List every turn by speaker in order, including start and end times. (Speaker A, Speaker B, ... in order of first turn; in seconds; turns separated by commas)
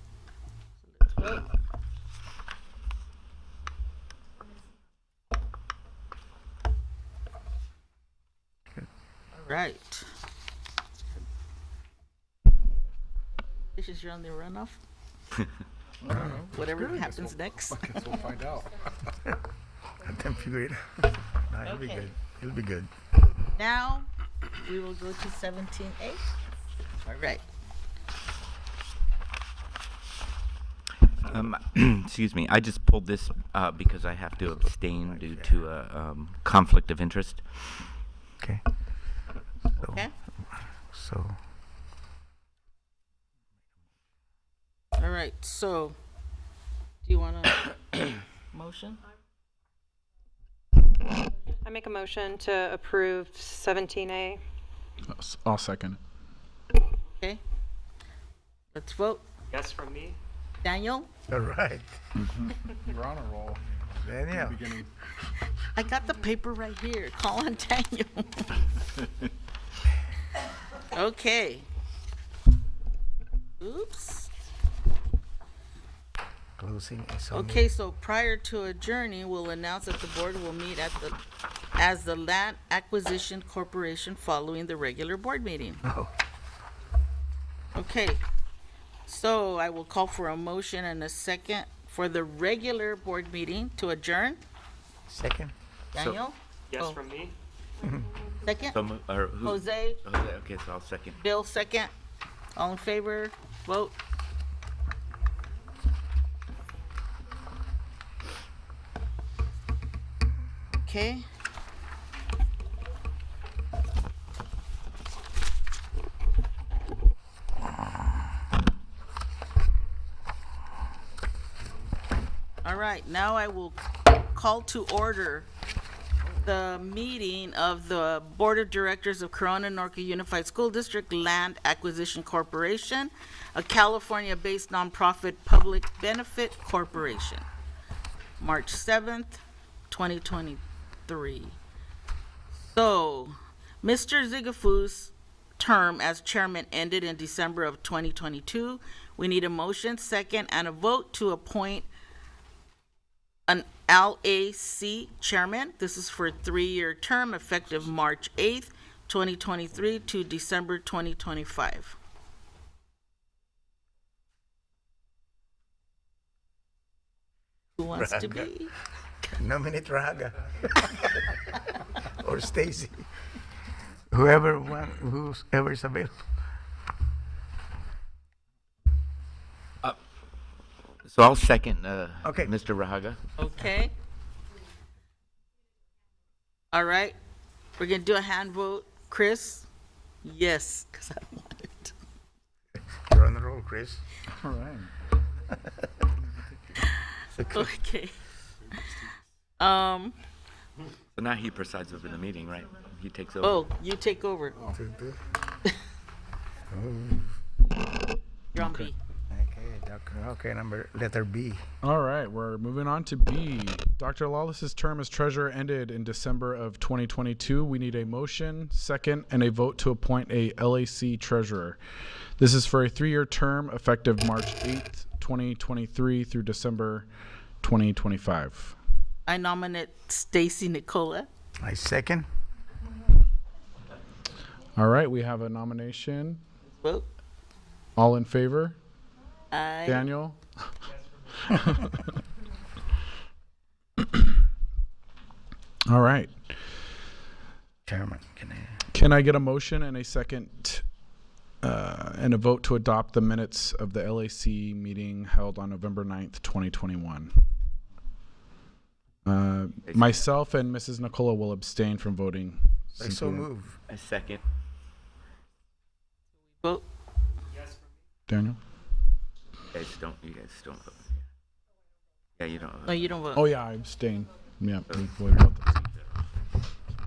Speaker A: 0.9-1.5, Speaker A: 9.3-10.1, Speaker A: 13.8-14.8, Speaker B: 16.1-16.4, Speaker C: 16.1-16.5, Speaker A: 16.2-18.2, Speaker B: 20.0-20.8, Speaker B: 21.5-22.9, Speaker A: 21.6-22.1, Speaker A: 23.6-24.1, Speaker A: 24.6-26.2, Speaker A: 27.1-27.4, Speaker D: 31.2-37.4, Speaker B: 34.9-35.7, Speaker A: 39.8-40.1, Speaker B: 40.7-41.4, Speaker A: 45.0-46.0, Speaker A: 47.0-49.0, Speaker E: 51.6-54.4, Speaker C: 55.1-56.0, Speaker A: 58.7-59.2, Speaker F: 59.5-60.2, Speaker A: 60.6-61.1, Speaker B: 61.3-62.0, Speaker C: 62.2-63.6, Speaker B: 64.0-64.6, Speaker C: 64.3-64.9, Speaker A: 65.7-68.7, Speaker A: 70.8-71.7, Speaker A: 73.6-74.3, Speaker B: 76.6-77.7, Speaker A: 77.3-81.2, Speaker A: 81.8-85.8, Speaker B: 85.8-86.1, Speaker A: 87.8-88.2, Speaker A: 89.1-94.4, Speaker B: 95.1-95.5, Speaker A: 95.9-97.0, Speaker F: 96.7-97.3, Speaker B: 97.8-98.1, Speaker A: 98.4-98.8, Speaker D: 98.7-101.2, Speaker A: 99.4-100.0, Speaker A: 101.2-101.9, Speaker A: 102.6-104.0, Speaker A: 110.8-111.2, Speaker A: 122.6-125.5, Speaker A: 126.4-137.4, Speaker A: 138.4-141.6, Speaker A: 142.6-151.9, Speaker A: 153.5-161.9, Speaker A: 167.8-168.7, Speaker B: 167.9-168.5, Speaker B: 169.3-171.2, Speaker B: 172.0-172.9, Speaker B: 174.1-176.1, Speaker D: 181.0-183.2, Speaker B: 182.2-182.5, Speaker A: 183.4-183.9, Speaker A: 186.7-187.2, Speaker A: 187.8-189.7, Speaker A: 190.2-191.9, Speaker B: 193.1-194.0, Speaker C: 194.3-194.9, Speaker A: 196.8-198.2, Speaker B: 197.4-197.7, Speaker A: 199.6-200.2, Speaker D: 201.2-203.6, Speaker A: 203.4-204.6, Speaker B: 204.7-205.2, Speaker B: 206.7-207.4, Speaker A: 208.5-209.0, Speaker C: 208.6-208.9, Speaker B: 209.3-211.6, Speaker C: 211.8-221.8, Speaker C: 222.4-227.1, Speaker C: 227.6-228.8, Speaker A: 229.3-231.3, Speaker B: 231.6-232.3, Speaker C: 234.8-236.4, Speaker A: 236.8-237.1, Speaker C: 238.0-238.8, Speaker A: 239.5-240.1, Speaker C: 239.9-240.8, Speaker C: 241.4-242.2, Speaker C: 244.0-244.3, Speaker C: 245.9-246.4, Speaker B: 247.9-248.8, Speaker C: 248.9-250.8, Speaker C: 251.6-257.3, Speaker C: 259.2-263.5, Speaker D: 259.9-260.2, Speaker B: 263.0-263.8, Speaker D: 263.9-264.4, Speaker F: 267.5-268.0, Speaker C: 268.3-268.6, Speaker D: 269.7-271.2, Speaker D: 272.4-273.1, Speaker A: 272.9-273.4, Speaker C: 273.3-275.9